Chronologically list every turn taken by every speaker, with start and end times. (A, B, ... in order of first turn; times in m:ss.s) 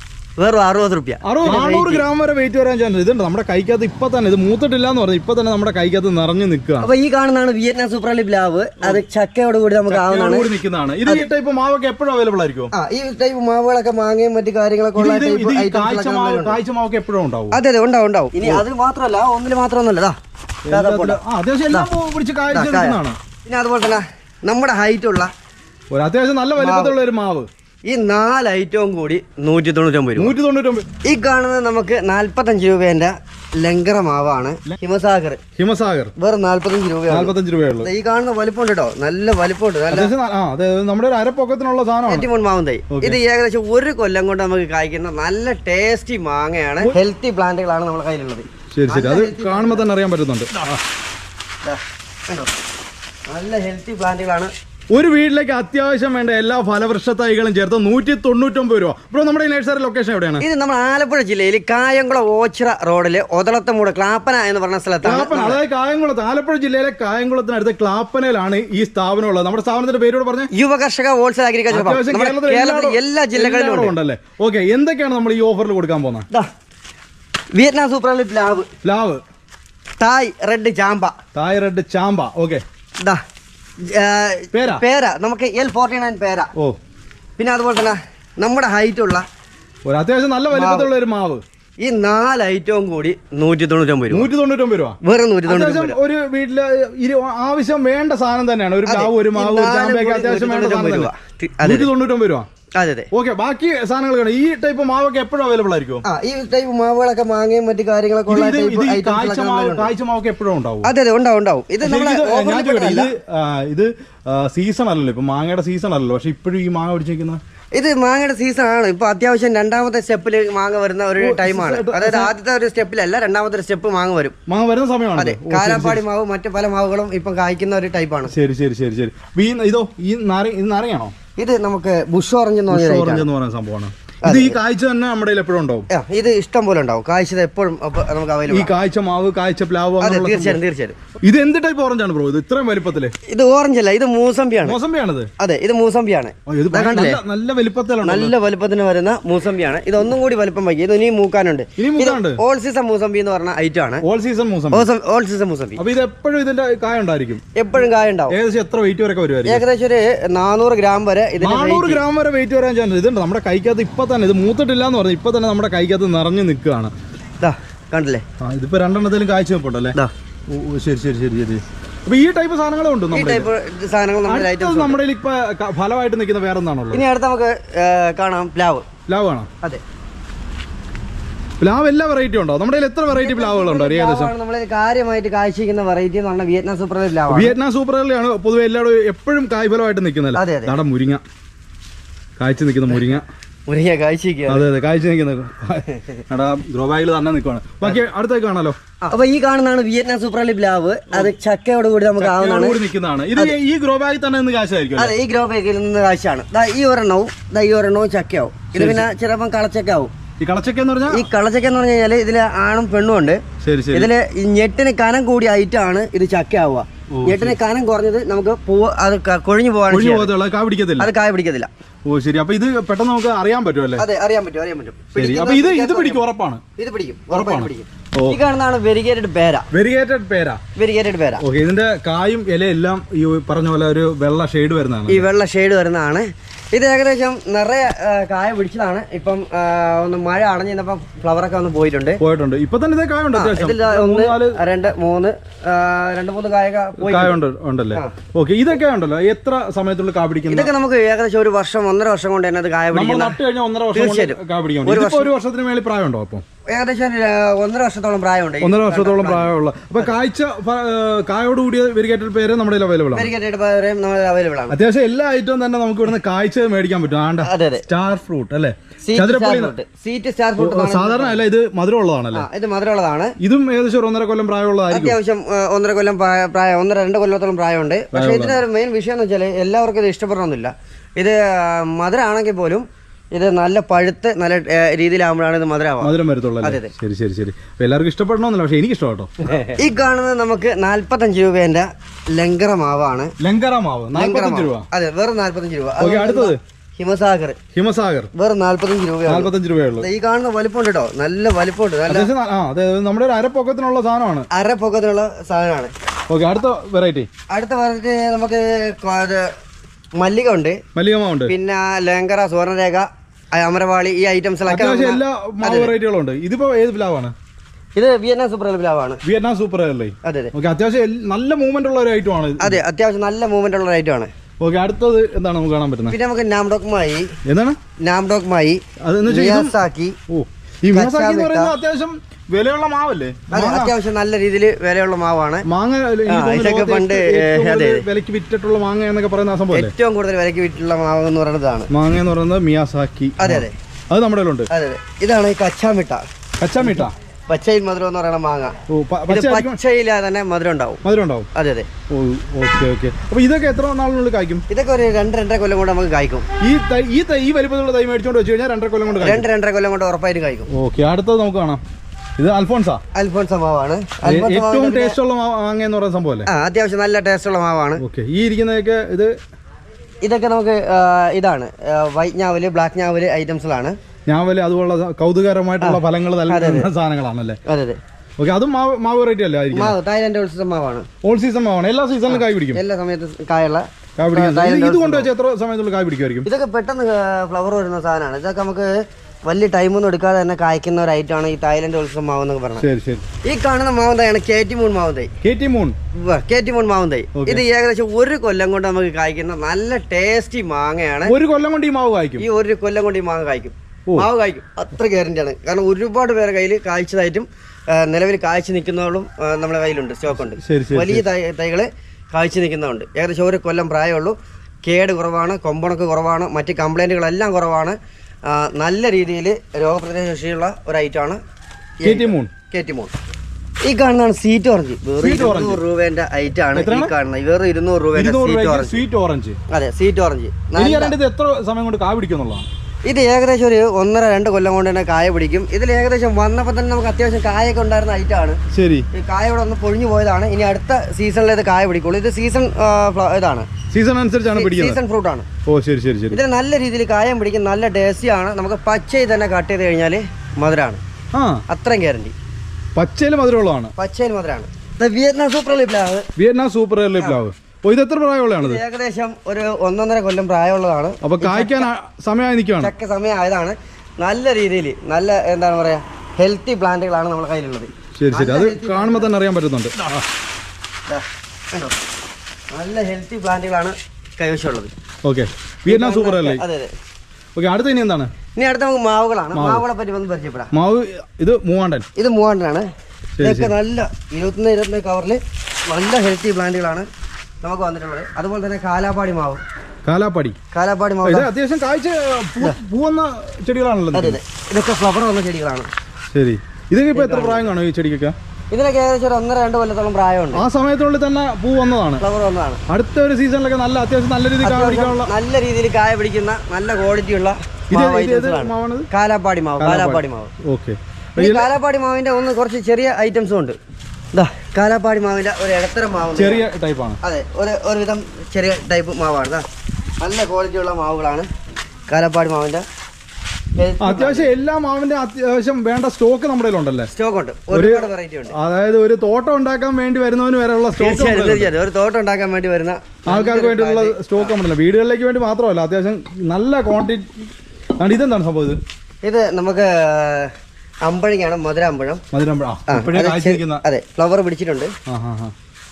0:00.4-0:02.0 A
0:01.2-0:06.9 B
0:06.8-0:10.5 A
0:09.9-0:12.7 B
0:12.7-0:16.6 A
0:14.9-0:17.6 B
0:17.5-0:20.2 A
0:18.4-0:18.6 B
0:20.7-0:23.2 B
0:20.7-0:21.2 A
0:22.5-0:25.3 A
0:25.9-0:27.5 B
0:26.6-0:26.9 A
0:27.8-0:30.3 A
0:30.2-0:30.8 B
0:31.0-0:35.4 A
0:35.6-0:36.1 B
0:36.2-0:40.1 A
0:37.1-0:37.9 B
0:39.9-0:42.3 B
0:42.1-0:49.8 A
0:42.9-0:43.2 B
0:48.7-0:50.8 B
0:51.6-0:52.5 A
0:53.3-0:54.5 A
0:54.9-1:00.4 B
1:00.4-1:05.6 A
1:05.0-1:10.5 B
1:10.5-1:13.9 A
1:11.7-1:16.3 B
1:17.5-1:18.7 A
1:18.8-1:19.2 B
1:20.0-1:21.1 A
1:21.3-1:22.6 B
1:23.8-1:26.5 A
1:24.5-1:24.8 B
1:27.4-1:29.2 A
1:29.8-1:31.4 B
1:30.5-1:30.9 A
1:31.8-1:34.3 A
1:34.1-1:41.1 B
1:35.0-1:36.0 A
1:38.8-1:41.9 A
1:41.6-1:42.5 B
1:42.8-1:43.1 A
1:43.1-1:46.0 B
1:46.0-1:49.9 A
1:48.3-1:50.9 B
1:50.8-1:53.1 A
1:51.8-1:57.4 B
1:57.7-2:04.4 A
2:01.2-2:02.3 B
2:04.5-2:06.0 B
2:05.2-2:08.3 A
2:08.3-2:11.1 B
2:11.4-2:13.2 A
2:12.7-2:15.9 B
2:14.2-2:14.6 A
2:15.9-2:18.7 A
2:18.5-2:20.6 B
2:20.0-2:21.0 A
2:21.2-2:23.1 B
2:23.3-2:24.8 A
2:24.6-2:25.3 B
2:25.4-2:27.2 A
2:26.5-2:28.3 B
2:28.0-2:34.0 A
2:31.8-2:32.4 B
2:34.0-2:34.9 B
2:34.7-2:35.8 A
2:35.8-2:37.4 B
2:37.6-2:38.4 A
2:38.3-2:39.6 B
2:39.4-2:42.0 A
2:41.4-2:46.9 B
2:47.4-2:48.2 A
2:48.4-2:50.0 B
2:50.5-2:53.5 B
2:53.1-2:55.0 A
2:54.3-2:57.0 B
2:56.9-2:58.8 A
2:59.1-2:59.5 B
3:01.6-3:04.3 B
3:03.1-3:07.5 A
3:07.3-3:11.2 B
3:10.3-3:10.7 A
3:12.4-3:13.2 B
3:13.7-3:14.6 A
3:14.5-3:18.8 B
3:15.9-3:16.2 A
3:19.0-3:22.8 A
3:22.2-3:25.1 B
3:25.0-3:30.1 A
3:28.7-3:29.1 B
3:30.4-3:31.3 B
3:31.1-3:33.4 A
3:33.6-3:34.1 B
3:33.9-3:40.3 A
3:37.1-3:37.6 B
3:39.9-3:41.1 B
3:41.0-3:41.7 A
3:42.0-3:44.0 B
3:44.0-3:46.2 A
3:45.2-3:46.6 B
3:46.8-3:49.7 A
3:47.3-3:48.4 B
3:49.7-3:50.6 B
3:50.8-3:51.4 A
3:51.4-3:55.2 B
3:55.1-4:02.2 A
4:02.2-4:04.6 B
4:03.3-4:07.4 A
4:07.0-4:10.7 B
4:10.5-4:13.4 A
4:12.9-4:16.4 B
4:13.9-4:15.3 A
4:16.7-4:20.1 A
4:18.6-4:23.3 B
4:23.1-4:24.8 A
4:24.7-4:29.7 B
4:27.4-4:27.8 A
4:29.0-4:31.4 A
4:30.6-4:32.5 B
4:32.3-4:33.3 A
4:33.4-4:35.2 B
4:34.9-4:46.9 A
4:38.1-4:38.6 B
4:46.0-4:49.3 B
4:49.5-4:53.3 A
4:53.4-4:54.8 B
4:54.1-4:57.6 A
4:56.0-4:56.6 B
4:57.7-4:58.3 B
4:58.3-5:02.3 A
4:59.3-5:00.1 B
5:02.1-5:04.5 B
5:04.5-5:05.9 A
5:06.3-5:07.3 B
5:07.5-5:09.5 A
5:10.2-5:10.8 A
5:10.9-5:11.5 B
5:11.5-5:15.9 A
5:14.7-5:17.3 B
5:18.0-5:19.2 A
5:19.2-5:22.8 B
5:20.2-5:20.5 A
5:22.6-5:24.3 A
5:24.6-5:26.2 B
5:26.1-5:27.3 A
5:27.4-5:27.8 B
5:28.0-5:30.2 A
5:29.0-5:29.8 B
5:30.3-5:33.9 B
5:30.9-5:31.7 A
5:33.5-5:35.6 A
5:35.7-5:39.9 B
5:36.3-5:38.0 A
5:39.7-5:41.9 A
5:41.9-5:44.7 B
5:43.4-5:43.7 A
5:44.7-5:46.2 A
5:46.6-5:47.1 B
5:46.8-5:48.7 A
5:48.9-5:49.8 B
5:49.3-5:51.0 A
5:51.0-5:51.5 B
5:51.5-5:51.9 A
5:52.1-5:54.6 B
5:54.7-5:56.5 A
5:56.6-5:59.4 B
5:59.1-6:00.7 A
6:00.7-6:01.8 B
6:02.4-6:03.0 B
6:03.1-6:05.2 A
6:04.2-6:06.5 B
6:06.5-6:08.0 A
6:08.0-6:09.3 B
6:10.2-6:14.0 A
6:14.3-6:17.6 B
6:15.8-6:16.9 A
6:17.6-6:18.0 A
6:18.4-6:20.0 B
6:19.7-6:21.1 A
6:21.2-6:22.8 B
6:22.3-6:25.3 A
6:24.2-6:26.5 B
6:26.4-6:32.8 A
6:32.8-6:33.2 B
6:33.4-6:35.3 A
6:35.4-6:36.0 B
6:36.2-6:41.3 A
6:37.3-6:37.6 B
6:41.2-6:42.4 B
6:42.4-7:01.4 A
6:50.6-6:51.2 B
7:02.0-7:03.1 A
7:02.0-7:02.5 B
7:03.8-7:09.0 A
7:05.2-7:05.8 B
7:06.7-7:07.1 B
7:08.1-7:09.6 B
7:09.7-7:11.1 A
7:10.8-7:12.7 B
7:13.0-7:18.6 A
7:18.7-7:19.1 B
7:19.1-7:23.7 A
7:23.9-7:25.0 B
7:24.5-7:25.5 A
7:25.6-7:26.4 B
7:26.3-7:31.0 A
7:31.3-7:31.6 B
7:31.7-7:32.3 A
7:32.9-7:33.9 B
7:34.0-7:36.3 A
7:36.4-7:38.8 B
7:38.6-7:41.9 A
7:41.2-7:42.9 B
7:42.8-7:49.3 A
7:48.2-7:50.2 B
7:51.1-7:51.9 A
7:52.7-7:54.9 A
7:55.2-7:56.6 B
7:55.8-7:56.9 A
7:57.5-7:58.3 B
7:58.6-8:00.7 A
7:59.5-7:59.8 B
8:00.7-8:02.0 B
8:02.2-8:02.9 A
8:03.4-8:03.7 B
8:03.4-8:07.1 A
8:07.6-8:09.6 A
8:10.0-8:10.6 B
8:10.7-8:11.5 A
8:11.2-8:14.4 B
8:14.1-8:15.9 A
8:16.3-8:18.3 B
8:17.1-8:17.7 A
8:18.7-8:20.6 A
8:20.5-8:22.2 B
8:22.2-8:22.8 A
8:22.9-8:25.3 B
8:24.6-8:30.5 A
8:27.9-8:29.1 B
8:29.8-8:31.7 B
8:31.4-8:33.8 A
8:34.3-8:36.6 A
8:36.4-8:37.2 B
8:37.2-8:39.6 A
8:40.2-8:41.5 A
8:42.1-8:42.8 A
8:43.8-8:44.5 A
8:44.0-8:47.1 B
8:47.1-8:48.5 A
8:47.7-8:51.7 B
8:51.0-8:54.5 A
8:53.3-8:57.3 B
8:58.0-8:58.8 B
8:59.2-9:00.5 A
9:01.0-9:02.2 A
9:02.3-9:03.8 B
9:02.9-9:04.9 A
9:05.1-9:05.5 B